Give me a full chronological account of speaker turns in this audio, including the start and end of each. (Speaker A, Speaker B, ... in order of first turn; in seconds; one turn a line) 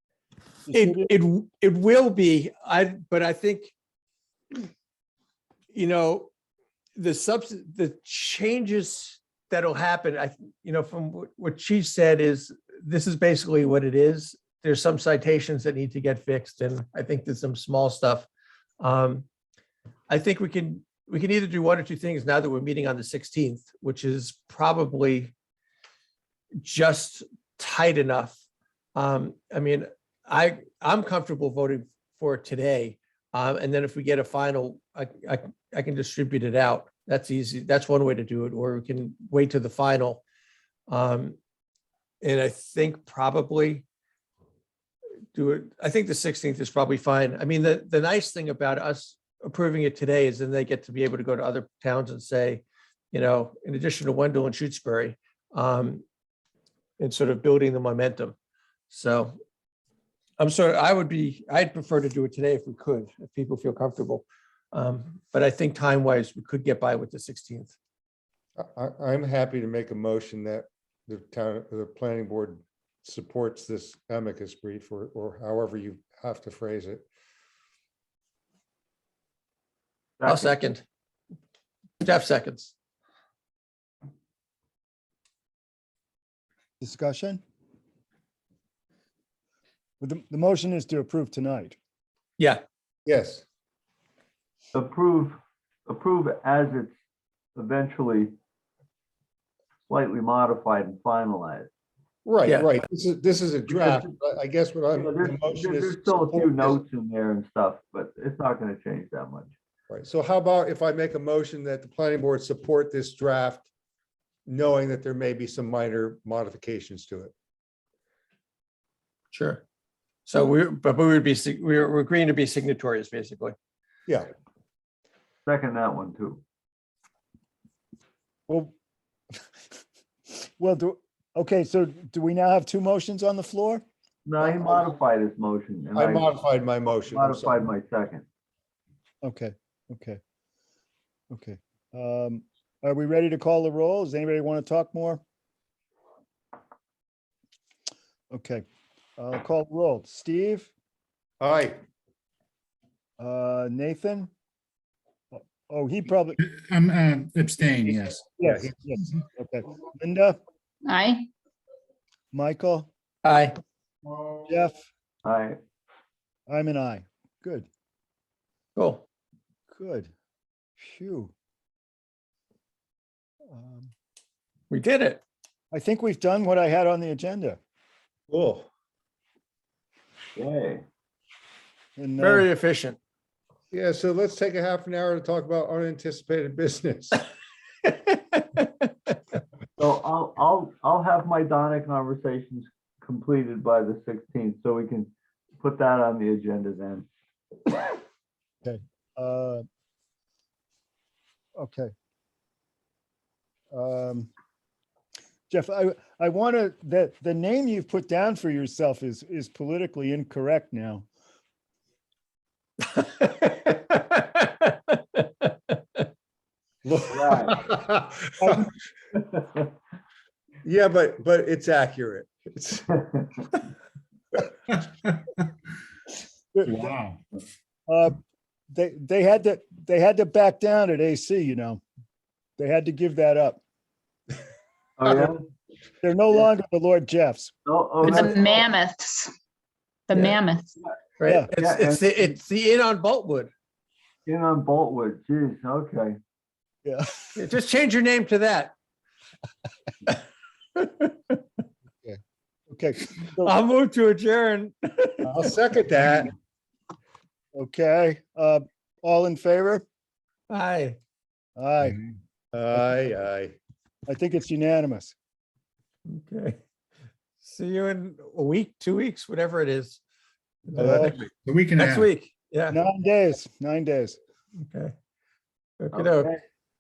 Speaker A: 0.7-1.1
Speaker B: 0.7-3.7
Speaker B: 5.7-6.3
Speaker B: 7.0-18.3
Speaker B: 18.8-19.2
Speaker B: 20.1-25.3
Speaker B: 26.6-28.4
Speaker B: 28.9-40.2
Speaker B: 40.9-41.4
Speaker B: 42.2-43.8
Speaker B: 45.3-56.0
Speaker B: 57.0-58.4
Speaker B: 58.9-59.3
Speaker B: 60.4-67.7
Speaker C: 68.6-77.0
Speaker D: 80.2-80.5
Speaker B: 80.2-80.8
Speaker B: 82.0-82.7
Speaker A: 86.8-87.4
Speaker A: 90.0-91.8
Speaker C: 93.0-93.4
Speaker D: 94.7-96.9
Speaker D: 97.5-98.3
Speaker D: 99.9-101.7
Speaker C: 102.2-106.8
Speaker B: 102.5-102.8
Speaker D: 103.7-104.1
Speaker D: 104.9-109.5
Speaker C: 109.9-113.7
Speaker C: 114.5-117.3
Speaker B: 119.3-119.6
Speaker B: 120.2-123.5
Speaker D: 125.5-126.4
Speaker A: 128.5-128.7
Speaker A: 130.3-133.8
Speaker D: 134.2-136.3
Speaker C: 134.4-134.9
Speaker C: 135.9-137.6
Speaker D: 137.1-138.2
Speaker A: 139.2-140.2
Speaker A: 141.3-145.2
Speaker A: 148.3-148.6
Speaker A: 149.2-150.7
Speaker C: 151.4-151.8
Speaker A: 153.2-154.3
Speaker A: 155.3-156.4
Speaker E: 156.4-158.2
Speaker A: 158.4-160.4
Speaker C: 158.4-158.8
Speaker F: 160.8-161.3
Speaker A: 162.3-162.9
Speaker B: 163.2-163.6
Speaker A: 164.4-164.8
Speaker D: 165.2-165.6
Speaker A: 166.5-167.7
Speaker B: 168.8-169.0
Speaker A: 169.7-170.1
Speaker A: 170.8-171.3
Speaker A: 173.5-173.9
Speaker B: 174.7-175.2
Speaker A: 175.7-177.6
Speaker C: 178.3-178.7
Speaker D: 180.3-180.8
Speaker A: 182.0-182.5
Speaker B: 182.2-183.0
Speaker C: 183.7-187.2
Speaker B: 188.1-188.7
Speaker D: 189.8-197.1
Speaker A: 198.6-199.6
Speaker A: 201.6-201.9
Speaker A: 203.7-204.3
Speaker A: 205.5-211.1
Speaker B: 212.9-216.0
Speaker C: 216.8-218.7
Speaker D: 217.1-217.6
Speaker A: 218.4-218.7
Speaker D: 219.1-219.7
Speaker C: 220.6-222.9
Speaker D: 222.9-223.3
Speaker A: 226.5-226.9
Speaker E: 226.6-227.2
Speaker A: 227.9-228.2
Speaker A: 228.7-231.8
Speaker A: 232.6-233.6
Speaker D: 235.0-235.5
Speaker A: 236.0-237.5
Speaker D: 237.7-238.7
Speaker F: 238.0-239.3
Speaker F: 240.1-240.8
Speaker B: 241.2-243.5
Speaker D: 241.5-242.3
Speaker D: 244.2-246.2
Speaker A: 246.8-247.4
Speaker B: 247.3-248.7
Speaker B: 250.8-251.4
Speaker A: 252.0-253.6
Speaker B: 253.4-255.5
Speaker C: 255.2-256.3
Speaker A: 257.6-259.8
Speaker B: 260.5-261.0
Speaker A: 261.6-262.0
Speaker E: 261.8-262.1
Speaker C: 262.5-263.6
Speaker A: 264.1-265.1
Speaker B: 266.1-266.6
Speaker B: 267.4-270.0
Speaker B: 270.7-271.1
Speaker A: 270.8-271.1
Speaker C: 270.8-271.2
Speaker E: 271.3-272.1
Speaker B: 271.8-272.8
Speaker A: 272.7-274.2
Speaker B: 274.6-274.9
Speaker B: 275.8-276.3
Speaker D: 275.9-276.4